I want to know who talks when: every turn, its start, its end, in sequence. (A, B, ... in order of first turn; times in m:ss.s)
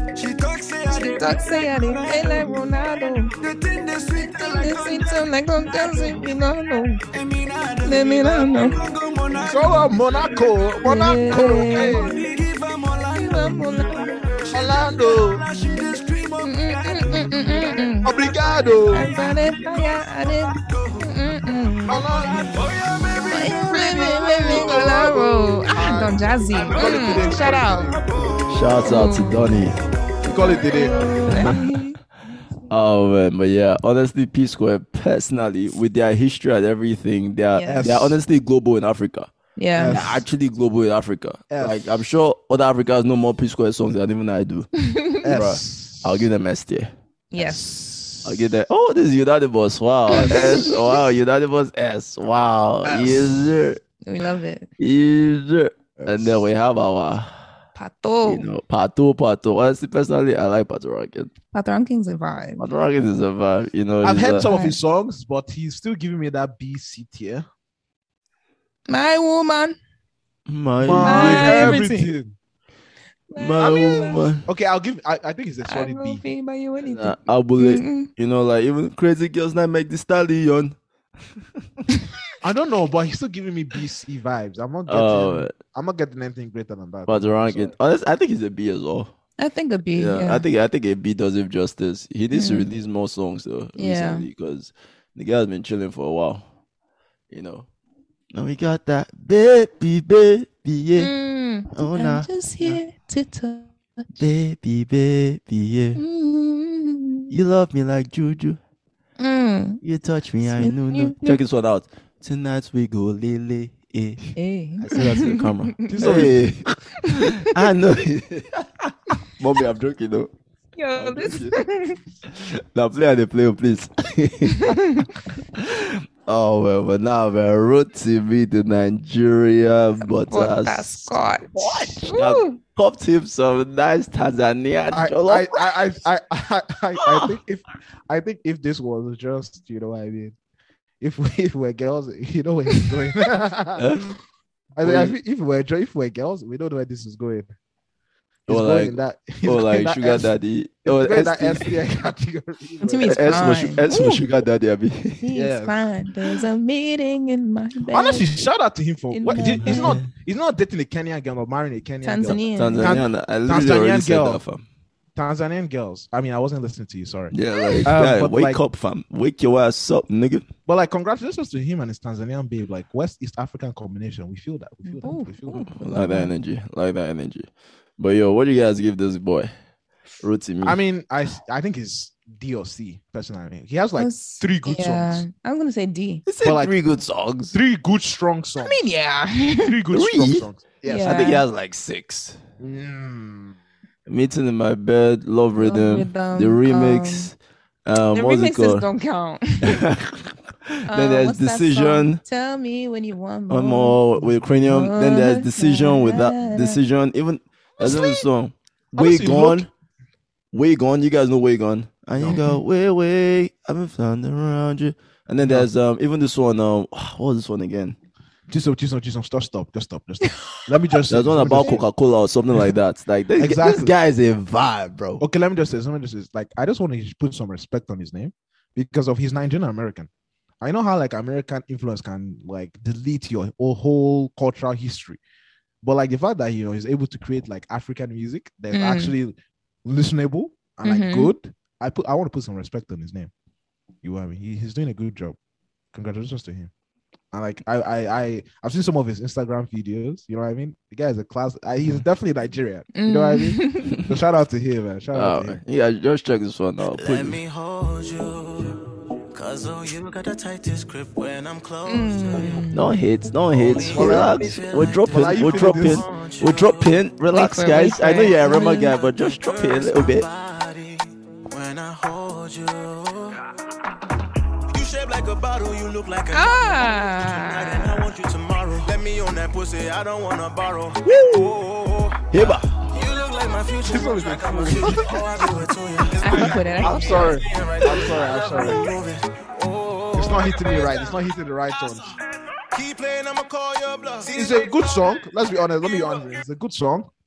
0:00.1-0:02.6 A
0:00.9-0:03.3 B
0:03.4-0:05.2 A
0:04.1-0:07.0 B
0:07.1-0:10.5 A
0:07.8-0:08.8 B
0:09.4-0:12.2 C
0:10.8-0:12.1 B
0:11.3-0:21.1 A
0:13.1-0:14.2 B
0:14.5-0:15.4 C
0:16.4-0:18.1 B
0:18.0-0:19.1 C
0:18.9-0:22.5 B
0:21.8-0:22.7 C
0:22.0-0:25.3 A
0:23.2-0:28.0 B
0:23.3-0:28.0 C
0:26.6-0:29.0 A
0:28.5-0:29.8 D
0:28.8-0:29.6 B
0:30.2-0:31.4 C
0:30.3-0:32.0 B
0:30.4-0:30.9 A
0:31.3-0:31.7 D
0:32.7-0:39.3 D
0:37.5-0:37.9 B
0:37.7-0:38.2 C
0:39.6-0:40.0 B
0:39.8-0:40.2 C
0:39.8-0:44.7 D
0:41.5-0:41.9 C
0:44.8-0:45.2 B
0:45.2-0:46.3 C
0:45.3-0:46.9 D
0:47.3-0:47.7 B
0:47.4-0:48.5 C
0:48.2-0:53.8 D
0:50.1-0:50.8 B
0:50.1-0:50.8 C
0:52.8-0:53.5 C
0:54.0-0:54.7 B
0:54.8-0:57.6 D
0:56.0-0:56.4 C
0:57.7-0:58.5 B
0:58.2-1:01.3 D
1:01.5-1:02.6 B
1:02.6-1:04.5 D
1:04.0-1:07.4 C
1:04.4-1:04.8 B
1:08.9-1:09.8 B
1:10.5-1:11.8 D
1:10.8-1:12.4 C
1:11.0-1:12.1 B
1:13.3-1:14.3 B
1:13.4-1:14.4 D
1:13.6-1:16.2 C
1:15.6-1:18.1 B
1:16.8-1:20.8 D
1:22.4-1:27.7 C
1:24.9-1:25.5 D
1:27.1-1:29.1 D
1:29.4-1:30.4 B
1:29.9-1:36.4 D
1:32.3-1:32.7 B
1:33.8-1:34.3 B
1:37.3-1:37.7 D
1:38.3-1:41.1 D
1:41.0-1:44.0 B
1:41.7-1:42.8 D
1:44.2-1:46.0 D
1:46.0-1:47.3 B
1:47.3-1:48.6 D
1:49.2-1:49.8 B
1:49.8-2:00.3 D
1:50.5-1:51.4 B
1:54.4-1:56.2 B
1:55.9-1:56.5 C
1:57.0-1:57.4 B
2:00.8-2:02.0 B
2:01.0-2:01.6 D
2:02.3-2:04.8 D
2:04.6-2:05.1 B
2:05.5-2:15.6 D
2:10.2-2:12.6 B
2:11.6-2:12.0 C
2:14.9-2:20.4 C
2:17.0-2:17.3 D
2:21.0-2:23.9 C
2:23.8-2:24.1 D
2:24.7-2:27.5 C
2:24.8-2:25.2 D
2:28.5-2:30.3 C
2:28.5-2:31.7 D
2:30.8-2:33.8 C
2:32.8-2:34.2 B
2:33.0-2:35.3 D
2:35.2-2:38.3 B
2:35.3-2:35.8 C
2:37.9-2:44.4 C
2:39.1-2:40.0 B
2:39.3-2:40.1 D
2:42.0-2:43.0 B
2:42.5-2:44.6 D
2:45.1-2:47.3 C
2:47.3-2:50.5 D
2:47.8-2:48.6 C
2:50.6-2:55.7 C
2:54.8-2:56.3 B
2:55.5-2:59.5 D
3:00.2-3:00.8 D
3:00.6-3:05.2 C
3:04.0-3:06.2 B
3:06.2-3:07.6 D
3:06.4-3:06.8 C
3:07.5-3:08.8 C
3:08.6-3:09.8 B
3:09.6-3:11.3 C
3:09.9-3:12.4 D
3:10.8-3:11.4 B
3:12.6-3:13.6 C
3:14.0-3:18.8 D
3:15.6-3:17.3 B
3:18.1-3:19.8 B
3:19.6-3:22.2 D
3:20.9-3:26.8 B
3:23.5-3:29.7 D
3:27.8-3:28.2 C
3:28.9-3:29.7 C
3:30.5-3:38.0 D
3:32.2-3:32.4 C
3:35.4-3:35.7 C
3:38.5-3:41.8 C
3:41.1-3:45.2 D
3:43.4-3:43.9 C
3:45.2-3:50.1 C
3:50.6-3:55.2 C
3:55.8-4:03.3 C
3:58.7-3:59.1 B
4:00.8-4:01.3 B
4:04.0-4:05.4 C
4:05.9-4:06.7 C
4:07.3-4:15.6 C
4:12.9-4:14.0 B
4:15.1-4:17.4 D
4:16.9-4:22.7 A
4:21.8-4:22.9 B
4:22.7-4:30.3 D
4:23.5-4:27.0 A
4:23.9-4:26.1 C
4:27.3-4:28.9 B
4:28.8-4:33.4 A
4:34.7-4:51.2 A
4:36.3-4:38.1 B
4:41.0-4:41.6 D
4:42.3-4:42.7 D
4:43.9-4:45.2 C
4:46.2-4:47.4 B
4:46.3-4:48.9 C
4:50.1-4:52.1 C
4:52.7-4:55.1 A
4:54.3-4:57.1 C
4:55.8-4:56.4 A